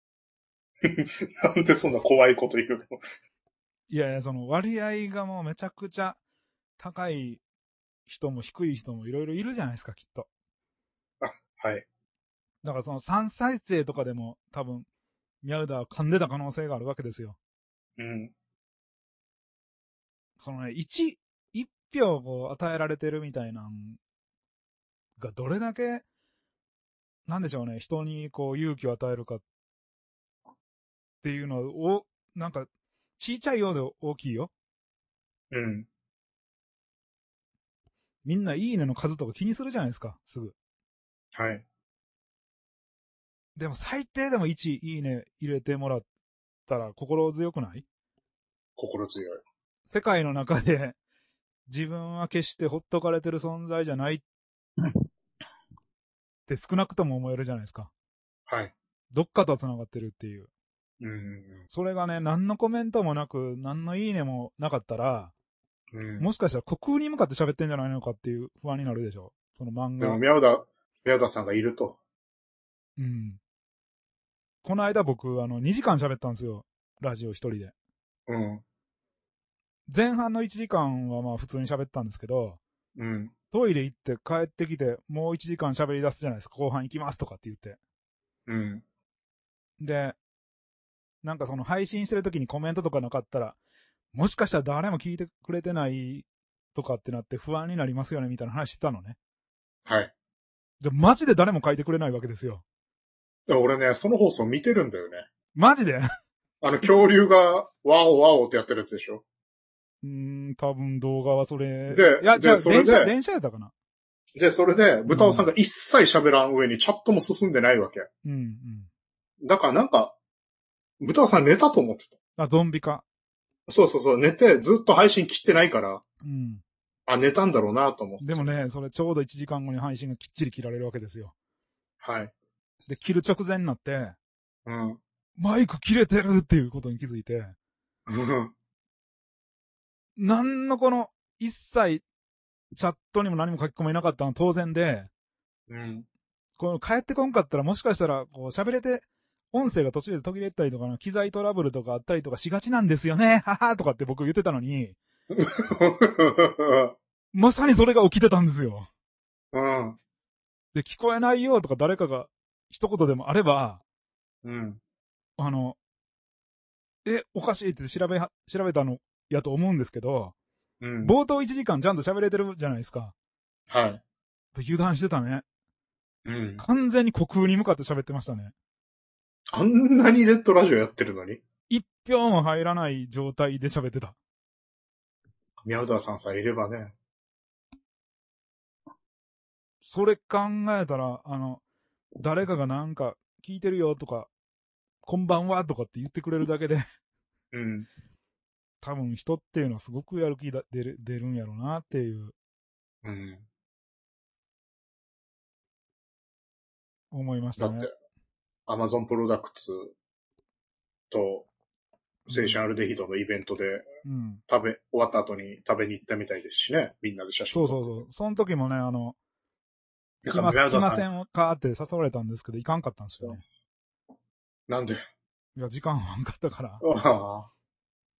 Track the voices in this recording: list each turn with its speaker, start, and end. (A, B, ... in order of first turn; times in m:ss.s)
0:00.8-0:03.0 A
0:03.9-0:06.2 B
0:06.8-0:07.4 B
0:08.1-0:10.3 B
0:11.2-0:11.9 A
0:12.6-0:14.9 B
0:15.4-0:17.4 B
0:18.0-0:18.3 A
0:20.4-0:24.0 B
0:25.2-0:26.0 B
0:27.3-0:29.4 B
0:31.2-0:32.7 B
0:33.2-0:34.5 B
0:35.5-0:35.9 A
0:38.2-0:40.6 B
0:41.3-0:41.6 A
0:43.6-0:46.1 B
0:46.7-0:47.8 B
0:48.8-0:49.4 A
0:49.9-0:51.0 B
0:51.7-0:54.2 B
0:56.5-0:57.9 B
0:58.5-0:58.7 A
0:59.1-1:00.5 B
1:01.0-1:01.6 A
1:01.7-1:05.3 B
1:05.9-1:06.3 A
1:06.2-1:10.2 B
1:10.0-1:12.0 A
1:13.0-1:13.4 B
1:14.6-1:17.7 B
1:18.3-1:18.6 A
1:19.9-1:22.6 B
1:23.0-1:23.3 A
1:23.5-1:27.8 B
1:28.5-1:28.8 A
1:29.8-1:30.2 B
1:31.2-1:33.6 B
1:34.1-1:39.2 B
1:39.9-1:40.1 A
1:40.8-1:42.6 B
1:43.5-1:45.3 A
1:45.6-1:46.1 B
1:46.6-1:49.2 A
1:50.0-1:53.7 B
1:51.9-1:53.1 A
1:54.4-1:58.1 A
1:55.1-1:55.5 B
1:58.2-1:58.9 B
1:59.4-2:00.2 A
2:01.0-2:02.2 A
2:02.4-2:03.0 B
2:03.7-2:06.0 A
2:06.2-2:06.6 B
2:07.1-2:08.5 A
2:08.2-2:11.3 B
2:12.0-2:12.3 A
2:12.9-2:14.2 B
2:14.7-2:15.0 A
2:15.4-2:17.6 B
2:18.1-2:18.5 A
2:20.2-2:22.0 B
2:22.7-2:25.1 B
2:25.7-2:26.1 A
2:26.6-2:35.0 B
2:35.3-2:36.9 A
2:37.3-2:38.9 B
2:39.5-2:40.0 A
2:40.7-2:43.8 B
2:44.4-2:44.8 A
2:45.4-2:45.8 B
2:47.0-2:50.3 B
2:50.8-2:51.1 A
2:51.0-2:53.1 B
2:53.7-2:54.0 A
2:54.5-2:55.4 B
2:56.3-2:56.6 A
2:56.6-2:58.5 B
2:59.5-3:01.4 A
3:01.7-3:04.2 B
3:05.6-3:07.0 A
3:09.8-3:11.6 B
3:12.2-3:14.3 B
3:15.0-3:16.8 B
3:17.5-3:17.9 A
3:18.8-3:22.3 B
3:23.0-3:23.5 A
3:27.1-3:27.9 B
3:27.6-3:27.9 A
3:28.7-3:29.9 A
3:31.1-3:31.5 A
3:32.3-3:32.6 B
3:32.3-3:33.9 A
3:34.0-3:34.4 B
3:34.5-3:38.0 A
3:37.5-3:39.2 B
3:40.2-3:41.0 A
3:40.3-3:43.4 B
3:44.7-3:45.0 A
3:45.6-3:46.8 B
3:46.8-3:47.5 A